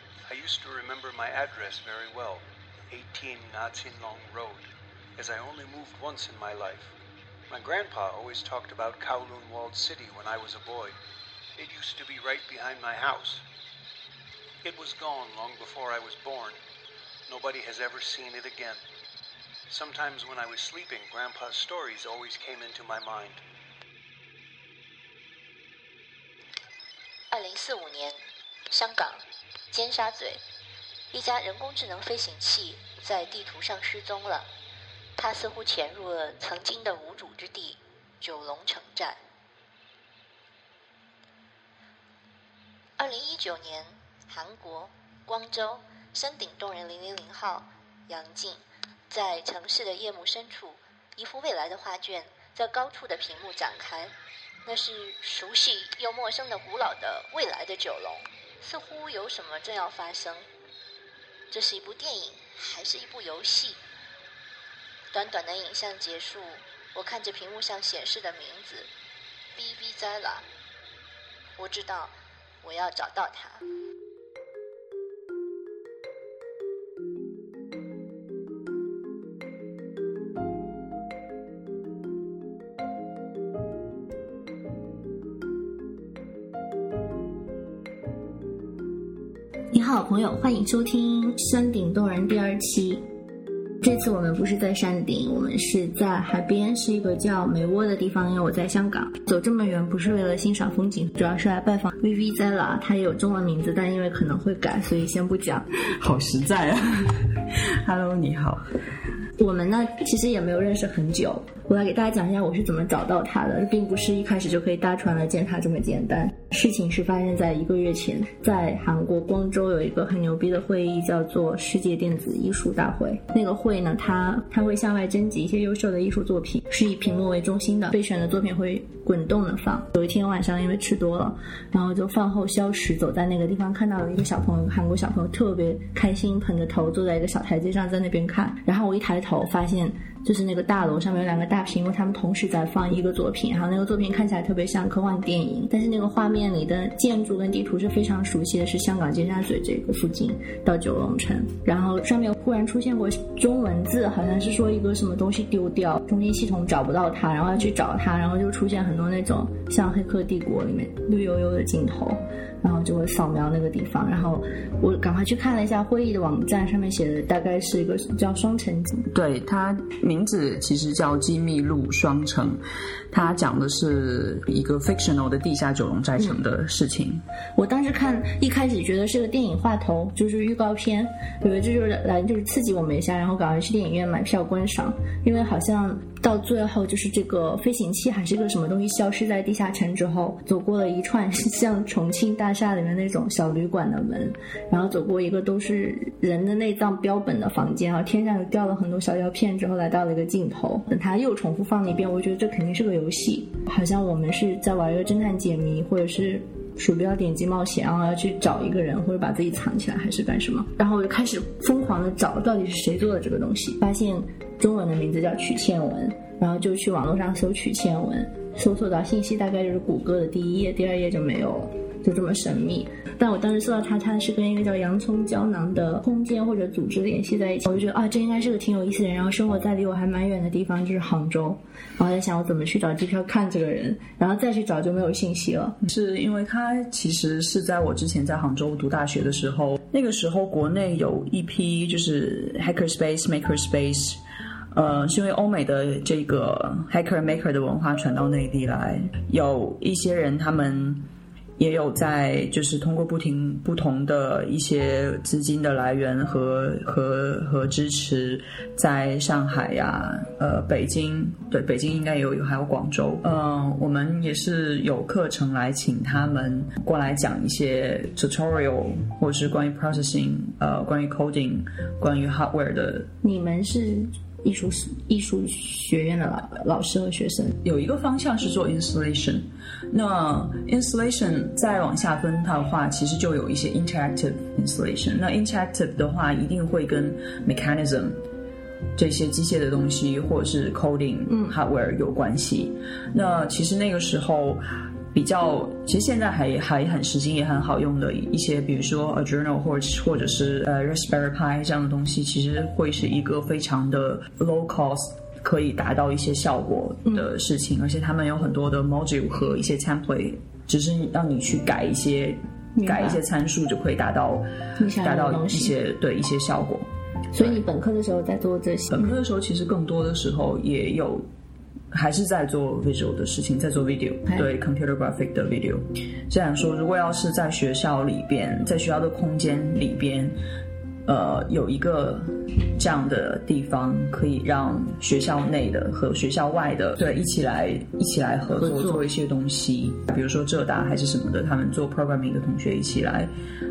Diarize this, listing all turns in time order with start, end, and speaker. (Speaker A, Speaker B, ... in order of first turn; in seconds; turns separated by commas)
Speaker A: 0.3-4.6, Speaker A: 5.2-6.9, Speaker A: 7.5-11.0, Speaker A: 11.6-13.4, Speaker A: 14.6-16.6, Speaker A: 17.3-18.8, Speaker A: 19.7-23.4, Speaker B: 27.3-28.2, Speaker B: 28.7-30.4, Speaker B: 31.1-34.5, Speaker B: 35.2-39.2, Speaker B: 43.0-54.1, Speaker B: 54.6-60.4, Speaker B: 61.5-63.8, Speaker B: 65.1-68.9, Speaker B: 69.5-70.4, Speaker B: 71.6-73.6, Speaker C: 89.7-93.0, Speaker C: 93.8-105.7, Speaker D: 105.8-108.8, Speaker C: 109.4-169.1, Speaker D: 169.1-177.2, Speaker C: 177.6-235.8, Speaker D: 235.8-244.2, Speaker D: 244.7-251.0, Speaker D: 251.6-273.1, Speaker C: 273.2-277.6, Speaker D: 277.6-288.2, Speaker D: 288.9-314.5, Speaker C: 291.3-291.5, Speaker C: 312.8-313.2, Speaker C: 314.8-315.7, Speaker D: 315.0-317.6, Speaker C: 317.3-319.1, Speaker D: 318.9-321.2, Speaker D: 321.9-330.4, Speaker D: 331.1-343.3, Speaker C: 338.6-339.0